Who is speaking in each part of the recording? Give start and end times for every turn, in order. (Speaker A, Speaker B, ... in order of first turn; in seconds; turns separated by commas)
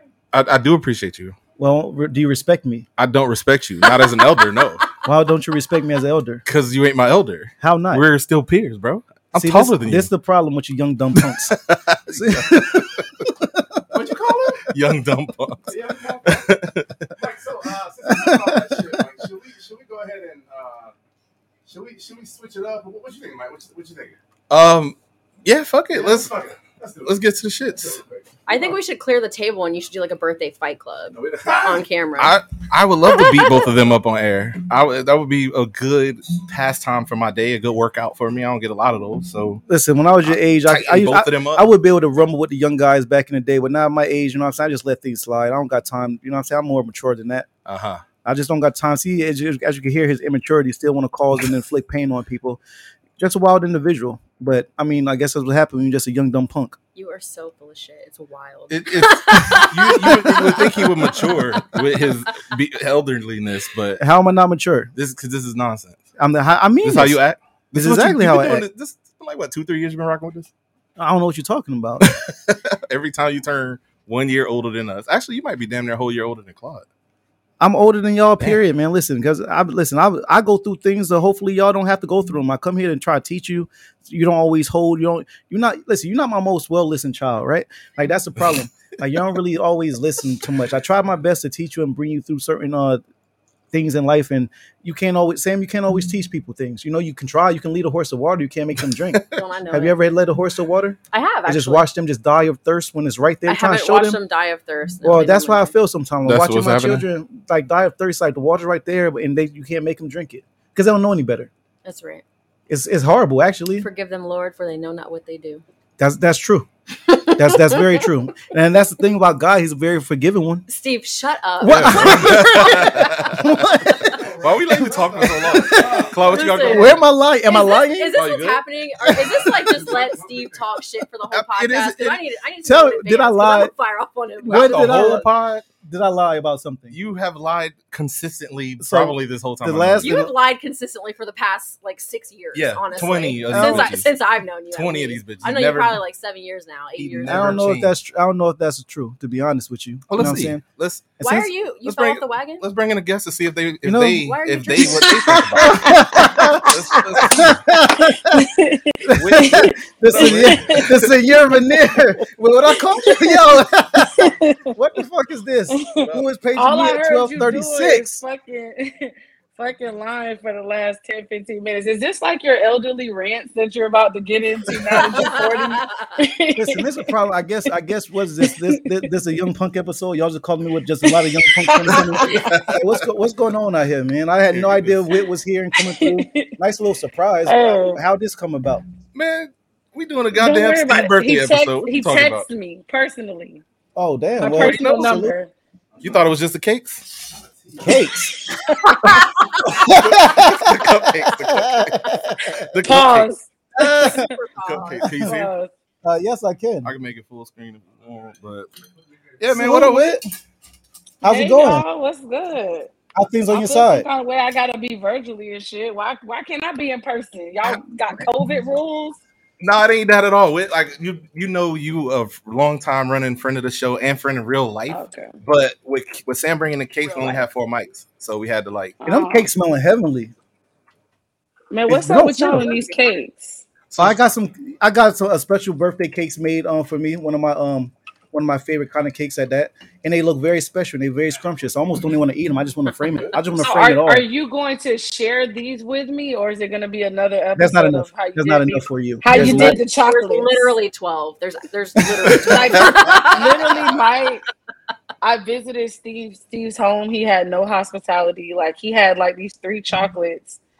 Speaker A: 0.3-1.4, Speaker B: 1.6-2.9, Speaker A: 3.0-4.8, Speaker B: 5.0-6.4, Speaker A: 6.5-10.1, Speaker B: 7.6-8.0, Speaker B: 9.3-13.8, Speaker A: 11.4-12.8, Speaker C: 13.9-14.7, Speaker A: 14.7-17.1, Speaker C: 15.7-20.9, Speaker B: 18.1-18.9, Speaker C: 21.6-24.1, Speaker A: 24.5-26.3, Speaker C: 25.9-27.1, Speaker A: 27.0-28.0, Speaker C: 27.8-28.2, Speaker D: 28.5-32.4, Speaker C: 31.1-31.8, Speaker A: 32.2-39.6, Speaker D: 33.1-33.6, Speaker B: 39.7-47.5, Speaker A: 40.2-41.7, Speaker A: 47.6-48.0, Speaker B: 48.2-52.6, Speaker B: 53.2-56.8, Speaker D: 56.9-61.8, Speaker A: 58.7-64.0, Speaker B: 64.0-64.9, Speaker A: 64.9-66.1, Speaker B: 66.2-67.2, Speaker A: 66.8-70.5, Speaker B: 67.7-68.7, Speaker B: 71.0-72.1, Speaker A: 72.0-76.8, Speaker B: 77.6-93.0, Speaker B: 93.7-104.2, Speaker D: 99.3-100.0, Speaker D: 101.1-101.9, Speaker D: 103.5-105.7, Speaker B: 105.0-111.5, Speaker A: 106.2-107.0, Speaker D: 111.8-112.2, Speaker B: 112.7-113.9, Speaker D: 113.8-115.6, Speaker B: 116.0-116.7, Speaker D: 117.1-117.8, Speaker B: 117.3-120.6, Speaker D: 120.7-123.3, Speaker B: 121.6-128.2, Speaker A: 121.7-123.6, Speaker C: 124.1-126.2, Speaker A: 124.4-127.0, Speaker D: 126.2-135.1, Speaker A: 128.1-128.6, Speaker B: 129.0-129.7, Speaker C: 129.7-130.5, Speaker A: 131.3-132.2, Speaker B: 132.6-133.7, Speaker B: 134.4-135.3, Speaker A: 134.5-135.7, Speaker B: 135.8-136.9, Speaker A: 136.9-140.2, Speaker B: 138.8-140.3, Speaker D: 140.0-147.7, Speaker A: 142.5-144.1, Speaker B: 143.5-144.0, Speaker A: 144.7-146.0, Speaker A: 147.0-147.9, Speaker B: 147.2-150.6, Speaker A: 150.1-151.1, Speaker B: 151.2-151.5, Speaker D: 151.2-152.7, Speaker A: 151.8-157.6, Speaker B: 153.8-154.3, Speaker D: 154.2-155.4, Speaker E: 155.2-161.0, Speaker B: 155.6-158.5, Speaker B: 159.1-168.2, Speaker A: 159.2-161.1, Speaker E: 162.8-163.5, Speaker E: 164.2-164.8, Speaker E: 165.7-177.1, Speaker A: 165.9-166.2, Speaker D: 175.2-176.1, Speaker B: 176.6-188.8, Speaker E: 178.4-179.1, Speaker E: 181.0-182.7, Speaker A: 182.2-182.8, Speaker A: 184.5-185.2, Speaker E: 185.8-186.5, Speaker E: 187.4-188.0, Speaker A: 189.1-192.4, Speaker E: 190.3-193.6, Speaker B: 193.9-195.3, Speaker E: 194.4-195.5, Speaker A: 194.5-195.2, Speaker A: 196.0-197.2, Speaker C: 197.7-197.9, Speaker B: 197.8-198.5, Speaker B: 199.0-203.0, Speaker A: 199.7-202.1, Speaker A: 202.6-203.3, Speaker E: 202.8-204.3, Speaker B: 203.8-204.3, Speaker D: 203.8-205.1, Speaker A: 204.6-205.5, Speaker E: 205.2-205.7, Speaker B: 206.0-206.9, Speaker A: 206.8-208.7, Speaker A: 209.4-210.2, Speaker B: 209.5-210.2, Speaker B: 211.2-211.8, Speaker E: 211.2-212.9, Speaker B: 213.2-214.1, Speaker E: 213.5-219.2, Speaker A: 219.6-229.0, Speaker E: 224.9-225.3, Speaker E: 227.1-227.4, Speaker E: 229.0-229.5, Speaker B: 229.0-230.3, Speaker E: 231.7-233.6, Speaker B: 231.9-232.8, Speaker A: 233.9-234.2, Speaker B: 234.0-244.2, Speaker E: 243.6-250.7, Speaker B: 247.6-249.8, Speaker D: 249.3-253.9, Speaker B: 252.1-252.7, Speaker E: 252.4-254.4, Speaker E: 255.2-260.6